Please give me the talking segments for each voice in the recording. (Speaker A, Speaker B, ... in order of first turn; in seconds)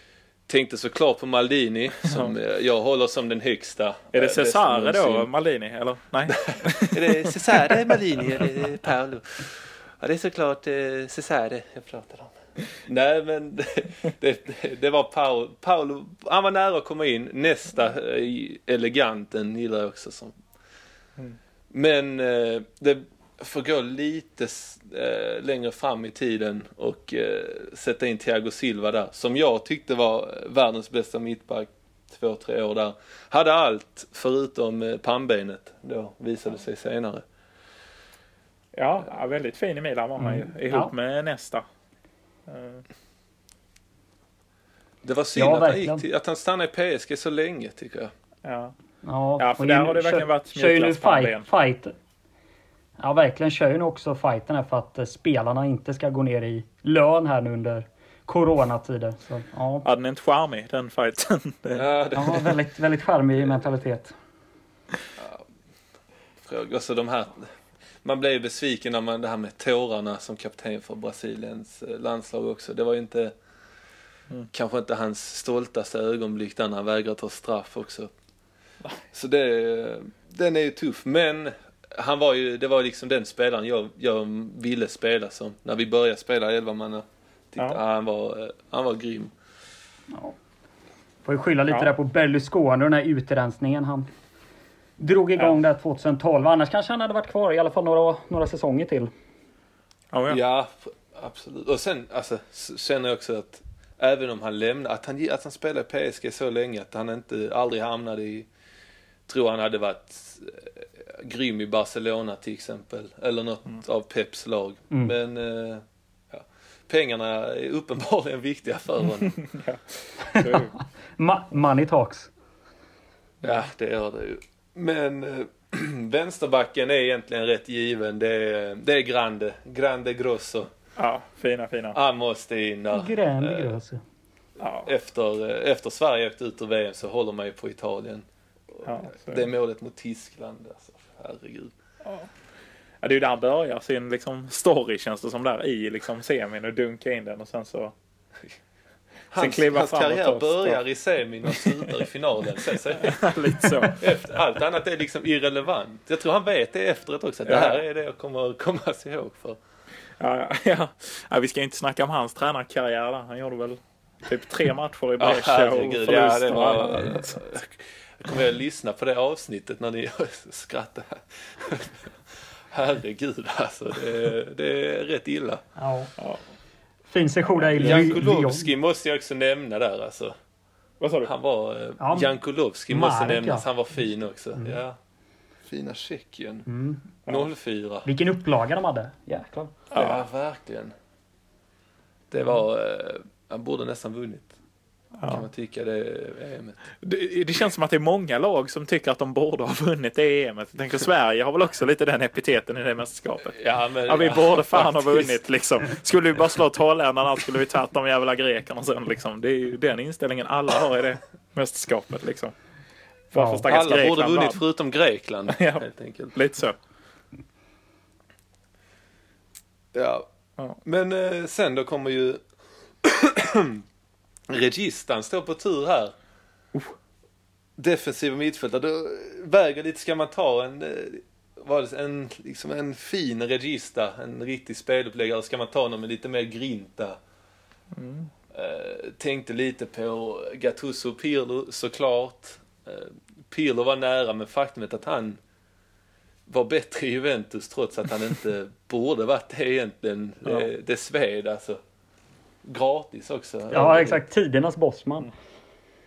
Speaker A: 0.5-5.3, 6.3-20.4, 21.7-37.2, 45.0-48.1, 61.7-62.6, 65.2-65.4, 66.4-67.5, 68.0-73.3, 74.5-78.1, 79.1-89.3, 100.3-108.5, 109.3-119.4, 123.4-130.7, 131.9-133.7, 134.8-141.7, 149.3-159.6, 165.2-175.6, 177.8-180.4, 181.2-185.0, 185.6-186.7, 187.2-188.1, 189.9-190.9, 192.3-194.5, 195.3-196.8, 203.5-205.4, 213.7-216.3, 219.9-220.3, 220.8-222.4, 223.0-223.8, 224.5-226.1, 227.8-237.2, 238.5-245.4, 246.5-251.8, 252.6-254.2
Speaker B: 2.0-2.3, 4.1-8.5, 38.8-41.6, 42.5-42.8, 48.5-48.7, 49.4-51.5, 59.8-61.8, 100.1-100.4, 119.4-120.7, 131.0-132.0, 134.6-134.9, 138.8-139.5, 143.0-147.9, 149.4-150.8, 151.5-151.8, 152.9-154.1, 157.5-157.8, 160.2-167.4, 177.7-178.2, 181.0-181.3, 189.9-190.2, 195.2-195.5, 197.0-212.5, 213.3-214.6, 215.5-216.8, 237.9-238.3
Speaker C: 40.2-40.9, 45.4-46.0, 49.0-51.9, 53.0-59.9, 62.1-64.1, 90.1-90.4, 91.2-94.1, 95.0-99.1, 120.2-122.3, 132.9-134.0, 175.8-176.1, 177.1-178.7, 182.0-182.3, 182.9-183.7, 186.7-187.1, 188.1-189.7, 213.4-213.6, 253.7-255.3